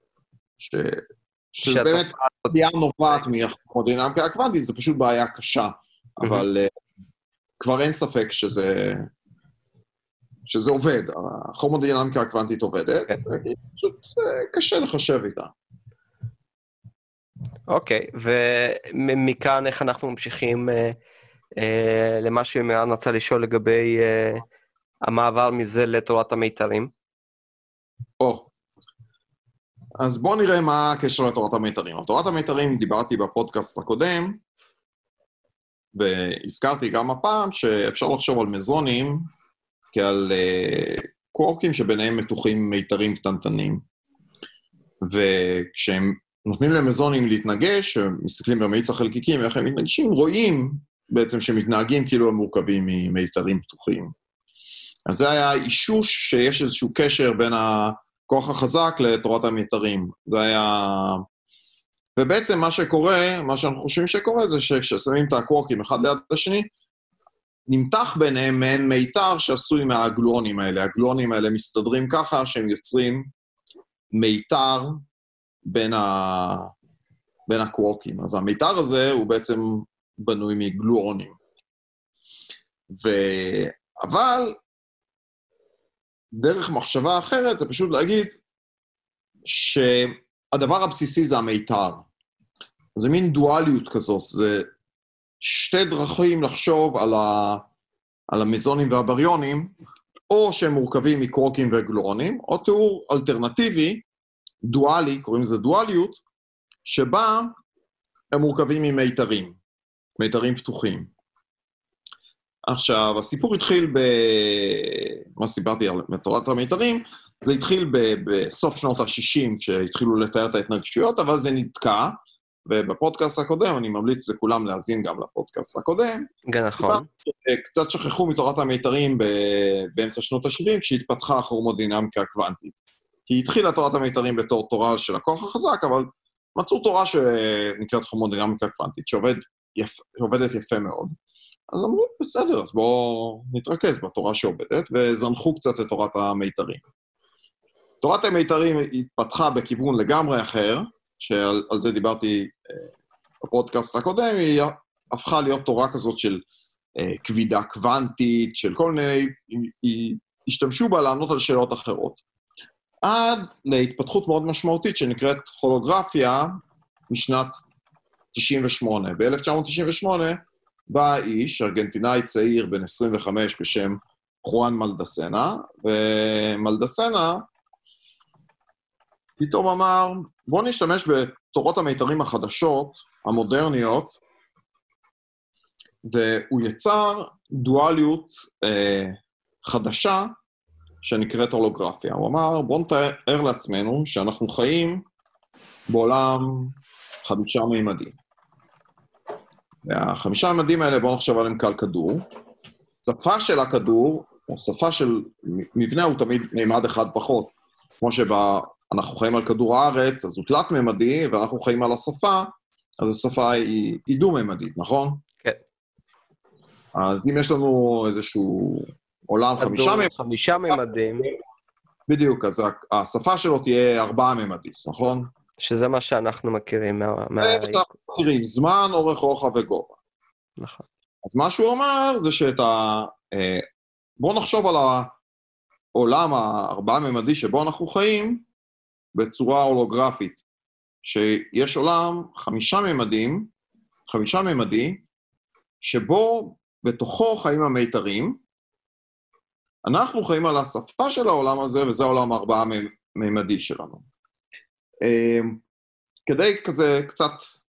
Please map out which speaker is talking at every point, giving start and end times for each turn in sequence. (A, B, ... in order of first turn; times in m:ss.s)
0:00.6-0:06.7 A
0:01.6-0:02.5 B
0:07.6-0:09.1 A
0:10.5-0:15.5 A
0:17.7-0:21.0 B
0:21.6-0:24.4 B
0:25.0-0:26.9 B
0:28.2-0:28.5 A
0:30.0-0:34.4 A
0:35.9-0:39.3 A
0:39.9-0:43.8 A
0:45.0-0:54.1 A
0:55.1-1:01.2 A
1:02.2-1:06.7 A
1:07.7-1:13.3 A
1:14.1-1:15.0 A
1:15.6-1:16.7 A
1:17.5-1:21.4 A
1:22.9-1:24.6 A
1:26.3-1:28.4 A
1:29.4-1:32.0 A
1:33.0-1:34.7 A
1:35.4-1:37.6 A
1:38.3-1:39.7 A
1:40.3-1:44.0 A
1:44.6-1:46.2 A
1:46.8-1:47.5 A
1:48.3-1:49.6 A
1:50.2-1:51.1 A
1:52.7-2:06.3 A
2:06.5-2:07.0 B
2:06.8-2:12.7 A
2:13.3-2:21.2 A
2:21.7-2:26.8 A
2:28.0-2:32.9 A
2:33.4-2:36.4 A
2:37.0-2:42.2 A
2:43.0-2:47.6 A
2:48.3-2:57.4 A
2:59.4-3:04.2 A
3:06.0-3:10.4 A
3:11.0-3:15.0 A
3:15.9-3:18.1 A
3:19.8-3:22.2 A
3:23.0-3:35.2 A
3:36.9-3:40.1 A
3:39.6-3:41.3 B
3:40.7-3:41.3 A
3:42.1-3:45.3 A
3:45.6-3:47.8 B
3:47.4-3:50.0 A
3:50.6-3:50.8 B
3:51.2-3:53.6 A
3:54.2-3:55.1 A
3:55.9-3:58.4 A
3:59.1-4:00.4 A
4:01.0-4:03.5 A
4:04.1-4:05.0 A
4:05.8-4:08.4 A
4:09.8-4:14.0 A
4:15.0-4:15.6 A
4:16.2-4:17.5 A